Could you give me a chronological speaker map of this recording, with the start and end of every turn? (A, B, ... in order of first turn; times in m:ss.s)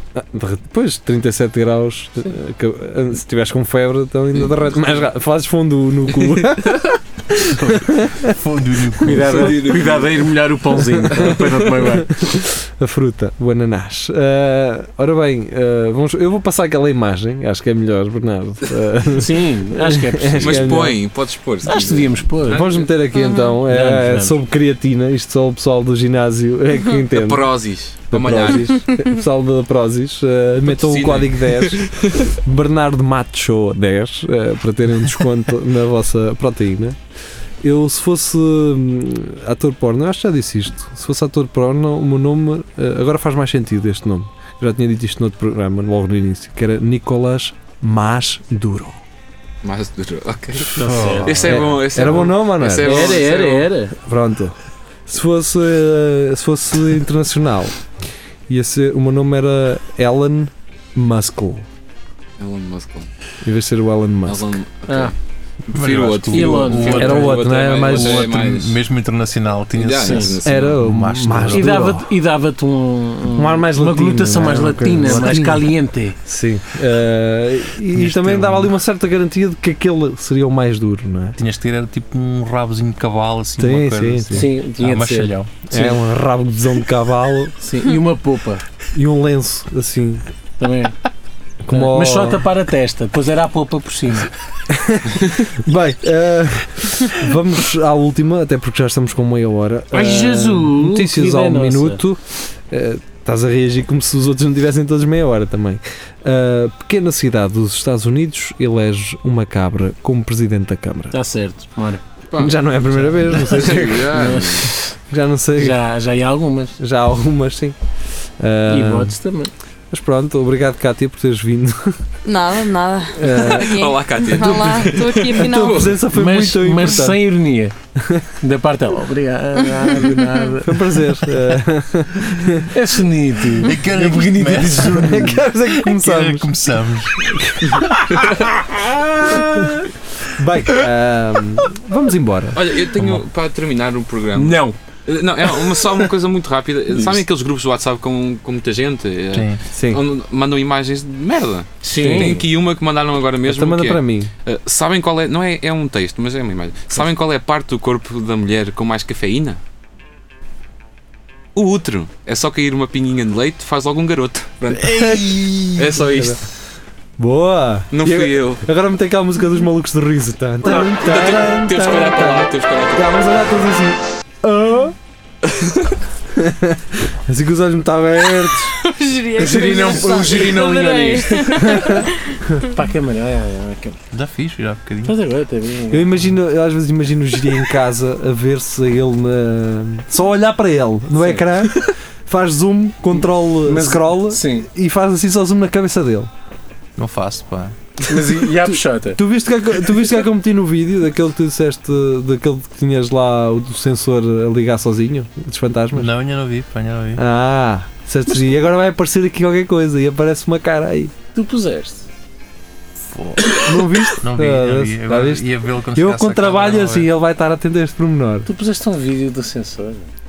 0:00.2-0:09.3 A
0:04.4-0:05.0 B
0:06.3-0:07.0 B
0:07.4-0:09.6 C
0:09.0-0:12.1 D
0:09.2-0:10.4 B
0:10.8-0:21.0 A
0:11.2-0:11.5 B
0:19.1-0:20.8 D
0:20.4-0:22.9 B
0:21.7-0:22.6 D
0:22.5-0:27.5 A
0:23.2-0:23.6 E
0:23.7-0:24.4 D
0:27.1-0:28.8 B
0:28.1-0:37.0 A
0:30.7-0:32.3 B
0:37.6-0:49.0 A
0:49.6-0:53.7 B
0:50.7-0:51.7 C
0:50.8-0:51.6 D
0:51.4-0:53.3 A
0:52.8-0:54.0 D
0:54.0-0:54.6 A
0:55.1-0:57.8 A
0:58.5-1:01.7 A
1:02.4-1:03.1 B
1:03.4-1:04.6 A
1:04.3-1:05.1 B
1:05.7-1:08.8 B
1:05.7-1:11.9 C
1:06.3-1:07.1 D
1:06.9-1:08.3 A
1:09.7-1:10.8 B
1:10.0-1:10.4 D
1:10.4-1:12.1 A
1:11.5-1:16.2 D
1:13.4-1:15.7 A
1:16.2-1:21.4 A
1:17.9-1:18.7 C
1:21.4-1:25.7 C
1:23.6-1:24.5 A
1:24.3-1:26.0 D
1:25.7-1:27.6 A
1:27.6-1:28.6 D
1:28.9-1:30.2 A
1:30.6-1:31.0 D
1:31.6-1:32.4 A
1:31.7-1:34.3 D
1:34.7-1:51.2 A
1:39.9-1:42.0 D
1:51.1-1:52.0 D
1:52.4-1:54.4 A
1:53.3-1:55.0 D
1:53.4-1:54.7 B
1:55.1-1:55.8 A
1:55.6-1:56.8 D
1:56.8-1:57.8 A
1:58.4-1:59.1 A
1:58.7-1:59.5 D
1:59.9-2:02.0 A
2:02.2-2:06.0 E
2:03.2-2:04.8 A
2:03.3-2:06.0 B
2:05.3-2:07.2 A
2:06.1-2:07.7 D
2:08.0-2:08.3 A
2:08.4-2:11.3 D
2:09.8-2:10.5 E
2:10.6-2:12.7 A
2:12.7-2:15.4 D
2:13.6-2:17.3 C
2:14.7-2:16.5 A
2:17.2-2:18.5 A
2:17.7-2:18.0 D
2:18.1-2:18.4 B
2:19.2-2:22.7 A
2:22.5-2:39.6 B
2:22.9-2:23.2 C
2:24.4-2:24.8 D
2:25.6-2:25.9 D
2:29.3-2:29.6 C
2:29.7-2:30.0 A
2:31.8-2:32.4 D
2:31.9-2:32.4 A
2:33.4-2:34.3 A
2:41.6-2:46.4 B
2:44.7-2:46.4 A
2:47.2-2:55.0 A
2:47.9-2:48.6 B
2:50.7-2:53.2 B
2:55.5-2:56.0 B
2:56.3-2:58.8 A
2:58.7-3:02.4 E
2:59.4-3:00.4 A
2:59.4-3:02.0 D
3:01.6-3:02.6 A
3:02.7-3:04.0 D
3:04.1-3:05.2 C
3:05.0-3:06.1 D
3:05.9-3:16.3 A
3:13.2-3:14.7 D
3:17.0-3:17.8 C
3:18.1-3:19.2 D
3:18.2-3:26.1 A
3:25.9-3:27.2 C
3:27.2-3:31.1 A
3:31.4-3:32.1 D
3:33.1-3:37.1 C
3:33.5-3:38.5 A
3:38.5-3:40.1 D